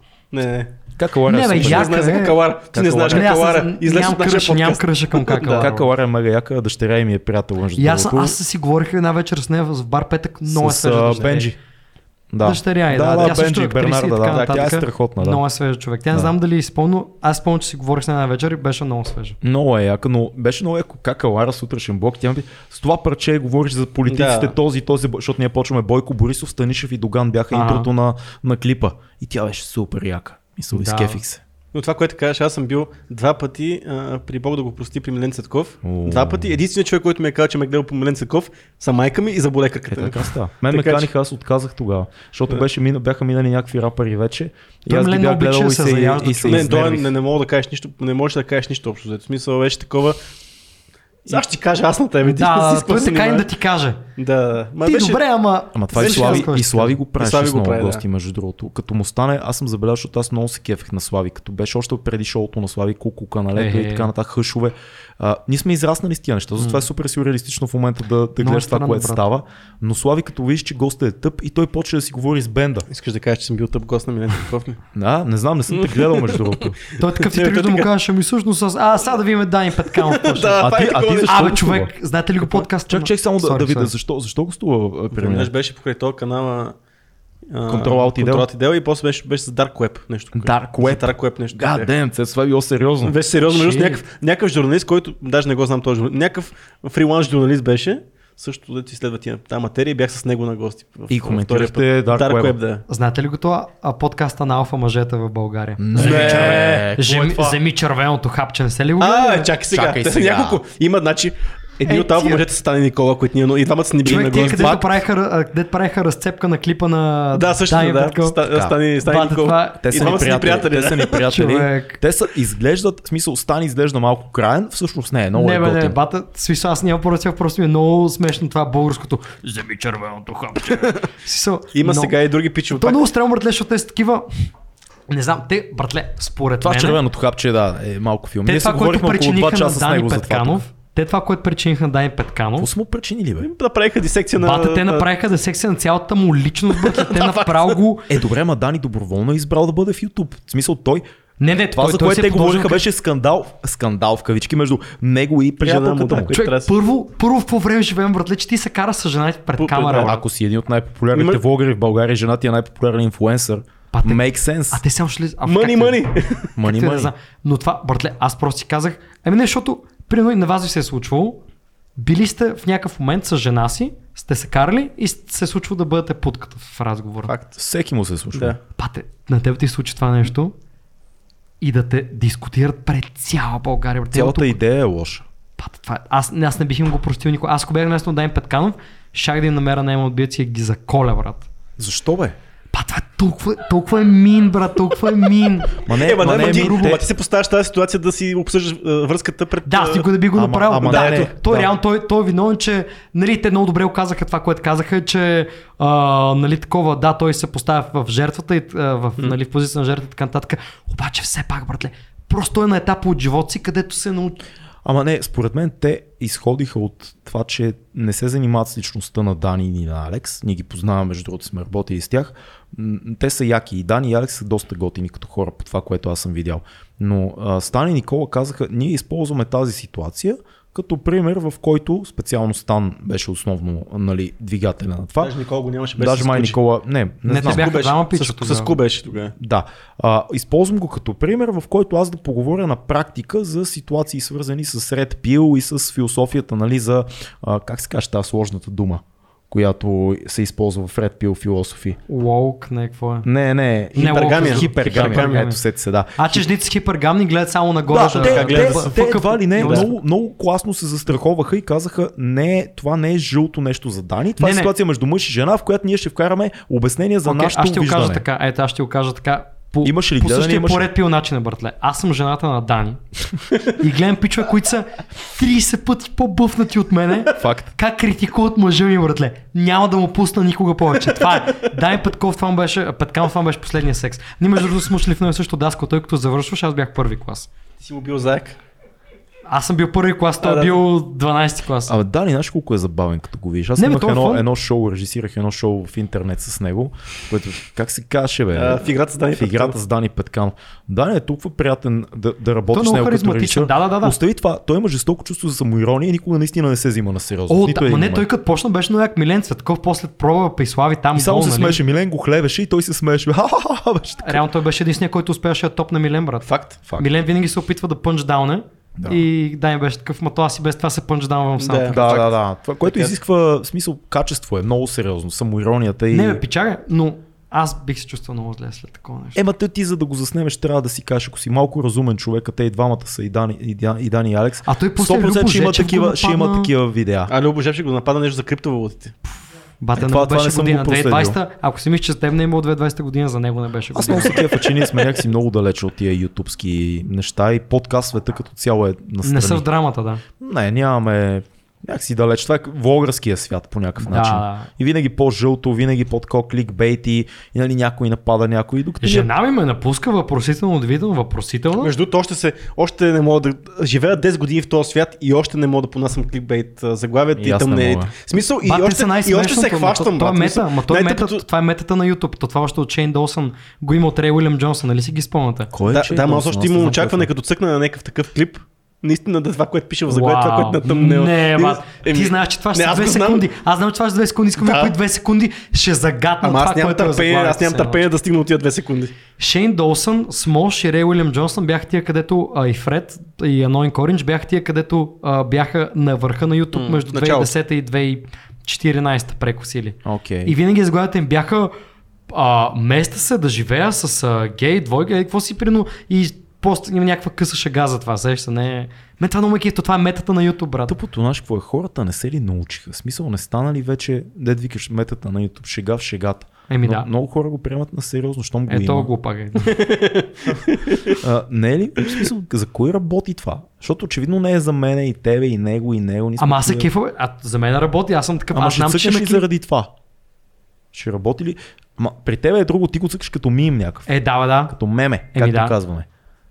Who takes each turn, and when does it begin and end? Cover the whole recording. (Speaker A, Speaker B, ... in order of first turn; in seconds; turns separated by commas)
Speaker A: 0.3-0.7, Speaker B: 0.9-2.0, Speaker C: 1.2-2.4, Speaker A: 1.5-5.7, Speaker B: 2.7-3.3, Speaker C: 3.0-5.9, Speaker B: 5.6-8.4, Speaker C: 7.8-11.5, Speaker B: 10.5-11.6, Speaker B: 12.3-15.4, Speaker C: 12.4-19.4, Speaker A: 14.3-14.7, Speaker B: 19.4-31.4, Speaker A: 24.1-24.6, Speaker C: 27.5-27.9, Speaker C: 30.7-31.2, Speaker A: 31.7-41.1, Speaker B: 35.8-36.6, Speaker B: 39.9-47.1, Speaker C: 44.9-46.9, Speaker A: 46.5-50.2, Speaker A: 51.2-53.5, Speaker C: 52.2-54.0, Speaker A: 54.2-55.2, Speaker C: 54.8-57.0, Speaker B: 55.7-72.9, Speaker A: 55.9-56.5, Speaker A: 57.2-58.0, Speaker C: 63.5-64.1, Speaker C: 66.6-66.8, Speaker C: 68.4-69.2, Speaker A: 72.9-74.8, Speaker B: 74.9-76.8, Speaker A: 75.7-77.9, Speaker C: 77.0-83.9, Speaker A: 79.9-81.6, Speaker B: 80.6-81.9, Speaker B: 82.9-85.5, Speaker A: 85.1-86.8, Speaker A: 87.5-91.9, Speaker B: 87.7-88.5, Speaker B: 90.3-93.2, Speaker A: 93.0-102.8, Speaker C: 93.5-94.0, Speaker B: 101.1-102.6, Speaker C: 102.9-109.5, Speaker B: 105.8-107.6, Speaker A: 106.0-106.8, Speaker A: 109.0-114.8, Speaker B: 109.7-110.6, Speaker C: 111.8-112.5, Speaker C: 114.0-118.4, Speaker B: 114.4-115.0, Speaker A: 117.3-121.3, Speaker C: 119.0-120.4, Speaker B: 119.8-126.0, Speaker C: 121.1-122.0, Speaker C: 125.3-132.1, Speaker A: 131.7-133.1, Speaker C: 132.7-134.3, Speaker C: 135.1-137.0, Speaker B: 136.6-140.6, Speaker C: 138.4-142.7, Speaker B: 142.6-143.5, Speaker A: 143.4-145.1, Speaker C: 144.4-148.1, Speaker A: 146.7-147.8, Speaker B: 148.1-151.0, Speaker C: 151.4-152.8, Speaker B: 151.7-156.3, Speaker A: 155.6-156.7, Speaker C: 156.3-160.2, Speaker A: 159.6-160.1, Speaker B: 159.9-164.8, Speaker A: 161.1-161.4, Speaker C: 163.9-166.0, Speaker A: 165.4-166.5, Speaker B: 166.6-167.1, Speaker C: 166.6-171.4, Speaker C: 172.0-177.3, Speaker A: 177.3-177.5, Speaker B: 177.5-178.6, Speaker C: 178.8-180.5, Speaker C: 181.6-184.6, Speaker B: 184.1-185.2, Speaker C: 185.6-191.5, Speaker B: 191.8-192.3, Speaker C: 192.7-197.0, Speaker B: 195.8-197.0, Speaker A: 195.9-200.1, Speaker C: 199.7-214.4, Speaker B: 200.3-201.7, Speaker A: 200.8-201.3, Speaker B: 214.8-235.3, Speaker A: 235.2-236.6, Speaker B: 236.0-237.7, Speaker C: 237.3-238.8, Speaker A: 237.4-239.3, Speaker B: 239.4-252.0, Speaker C: 252.1-253.3, Speaker B: 253.2-256.5, Speaker C: 253.9-255.6, Speaker A: 254.0-255.5, Speaker C: 256.2-259.9, Speaker B: 257.9-268.2, Speaker A: 258.2-259.9, Speaker C: 264.4-264.7, Speaker C: 267.2-273.0, Speaker B: 269.8-270.9, Speaker C: 273.6-287.5, Speaker B: 277.4-277.7, Speaker A: 287.8-288.6, Speaker C: 289.4-291.9, Speaker A: 290.4-290.8, Speaker B: 291.9-308.3, Speaker C: 293.8-294.4, Speaker A: 298.5-299.8, Speaker C: 302.7-304.2, Speaker C: 307.5-311.8, Speaker B: 311.1-314.4, Speaker C: 314.2-322.2, Speaker A: 316.4-316.8, Speaker A: 321.6-323.1, Speaker B: 321.9-326.4, Speaker C: 326.1-329.4, Speaker B: 329.3-337.3, Speaker C: 334.6-336.7, Speaker A: 337.3-339.1, Speaker C: 339.8-344.4, Speaker B: 339.9-341.4, Speaker B: 343.9-349.6, Speaker A: 344.2-344.9, Speaker C: 349.2-350.2, Speaker B: 350.4-359.3, Speaker C: 354.0-354.7, Speaker C: 359.0-361.9, Speaker A: 361.8-371.4, Speaker B: 367.4-368.1, Speaker C: 368.6-375.7, Speaker B: 375.7-377.3, Speaker A: 375.9-383.5, Speaker C: 380.1-388.1, Speaker A: 384.6-384.9, Speaker A: 386.4-389.1, Speaker C: 389.4-401.7, Speaker A: 396.7-397.5, Speaker B: 400.0-400.6, Speaker C: 402.3-410.9, Speaker B: 410.9-419.1, Speaker C: 416.7-417.1, Speaker C: 418.7-419.8, Speaker A: 419.6-421.2, Speaker B: 421.1-426.9, Speaker C: 426.4-429.4, Speaker B: 428.5-429.9, Speaker B: 430.9-434.1, Speaker C: 434.1-434.8, Speaker B: 434.7-436.1, Speaker C: 435.3-435.7